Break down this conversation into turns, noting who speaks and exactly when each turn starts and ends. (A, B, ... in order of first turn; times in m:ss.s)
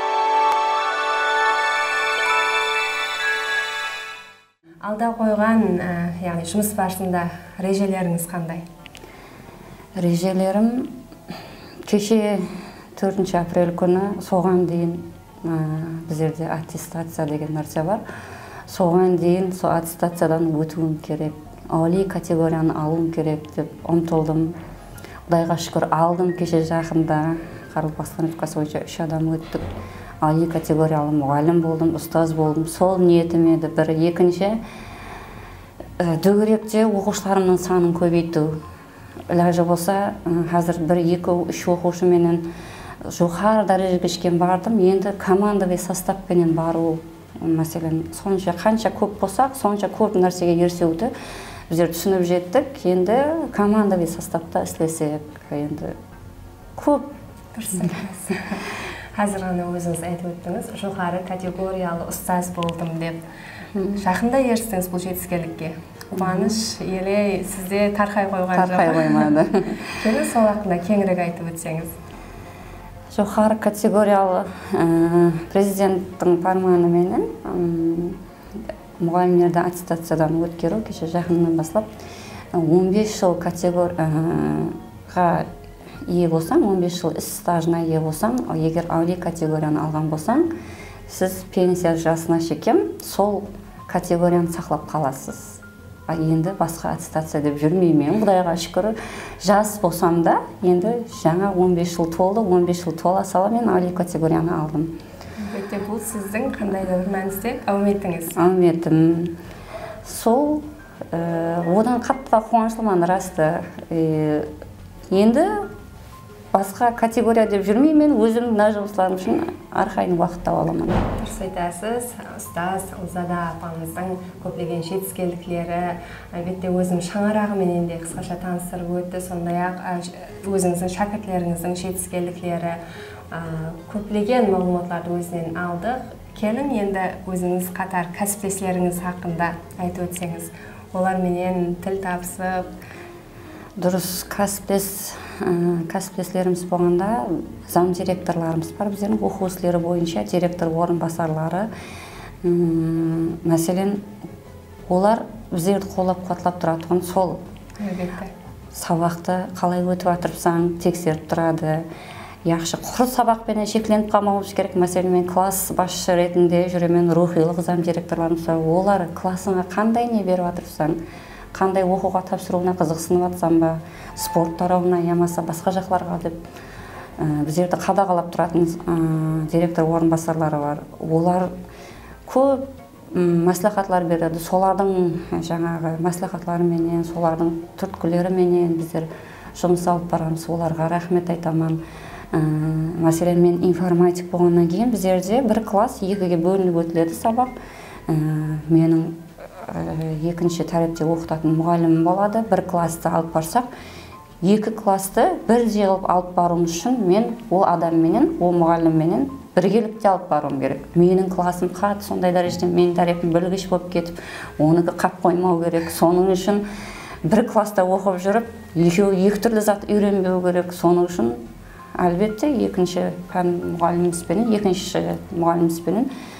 0:04.8-0:08.6 A
0:10.0-0:10.9 B
0:11.8-0:18.0 B
0:18.7-0:24.6 B
0:25.3-0:29.7 B
0:30.2-0:34.6 B
0:36.0-0:38.6 B
0:39.3-0:42.5 B
0:43.0-0:51.1 B
0:51.7-0:55.9 B
0:56.8-0:57.1 B
0:57.5-0:58.6 A
0:59.2-1:03.2 A
1:03.7-1:04.0 B
1:03.9-1:09.4 A
1:06.1-1:06.5 B
1:08.5-1:09.9 B
1:09.9-1:11.9 A
1:13.1-1:18.2 B
1:19.0-1:21.9 B
1:22.5-1:25.5 B
1:26.0-1:30.5 B
1:31.1-1:44.9 B
1:45.4-1:48.4 A
1:48.4-1:49.4 B
1:50.0-1:54.5 B
1:55.1-1:55.7 B
1:56.5-2:01.1 B
2:01.2-2:12.8 A
2:13.3-2:22.7 A
2:23.8-2:31.7 B
2:32.4-2:34.0 B
2:34.9-2:37.4 B
2:37.8-2:38.3 A
2:38.7-2:41.8 B
2:42.4-2:51.0 B
2:51.5-2:56.4 B
2:57.2-3:01.5 B
3:02.3-3:11.8 B
3:12.3-3:17.5 B
3:18.1-3:23.7 B
3:24.4-3:36.6 B
3:37.2-3:41.4 B
3:42.0-3:46.1 B